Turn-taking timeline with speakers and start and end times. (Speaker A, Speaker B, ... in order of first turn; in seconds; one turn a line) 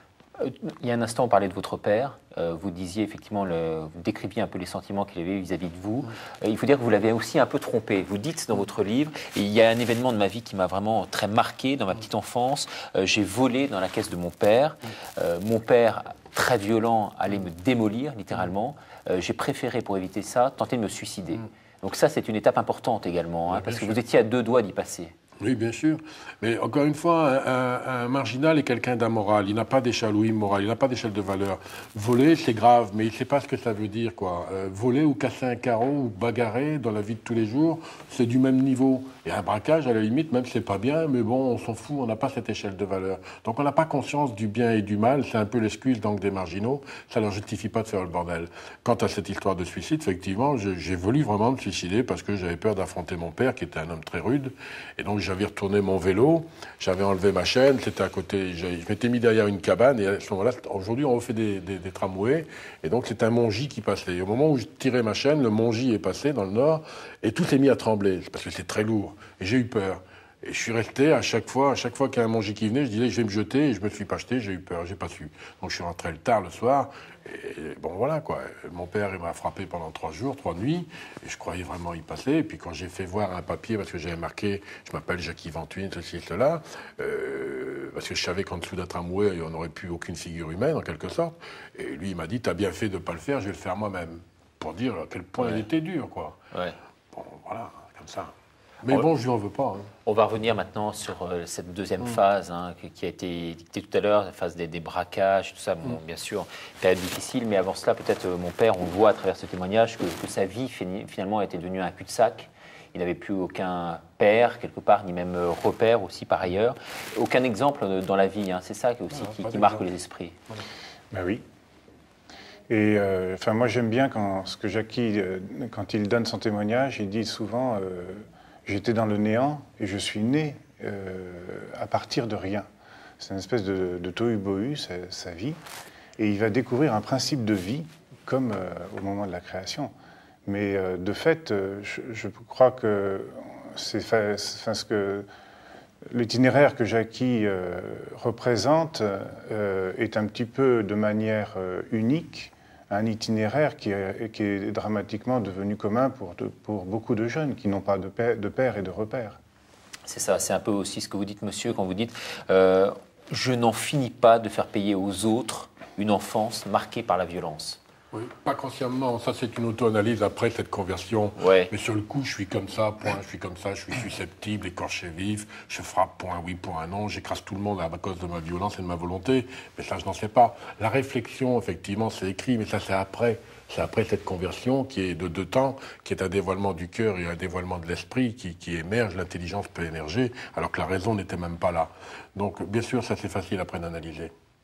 Speaker A: 0.4-25.1
Speaker B: 23.5-24.0
Speaker B: 25.4-96.4
Speaker A: 95.4-95.7
Speaker B: 97.1-98.3
Speaker B: 98.8-99.9
Speaker A: 100.0-120.3
Speaker B: 119.1-119.9
Speaker C: 121.1-121.4
Speaker C: 122.7-132.7
Speaker C: 133.2-135.6
Speaker C: 136.2-139.9
Speaker C: 140.5-145.2
Speaker C: 146.1-159.4
Speaker A: 160.1-167.8
Speaker B: 168.1-194.3
Speaker A: 171.4-171.7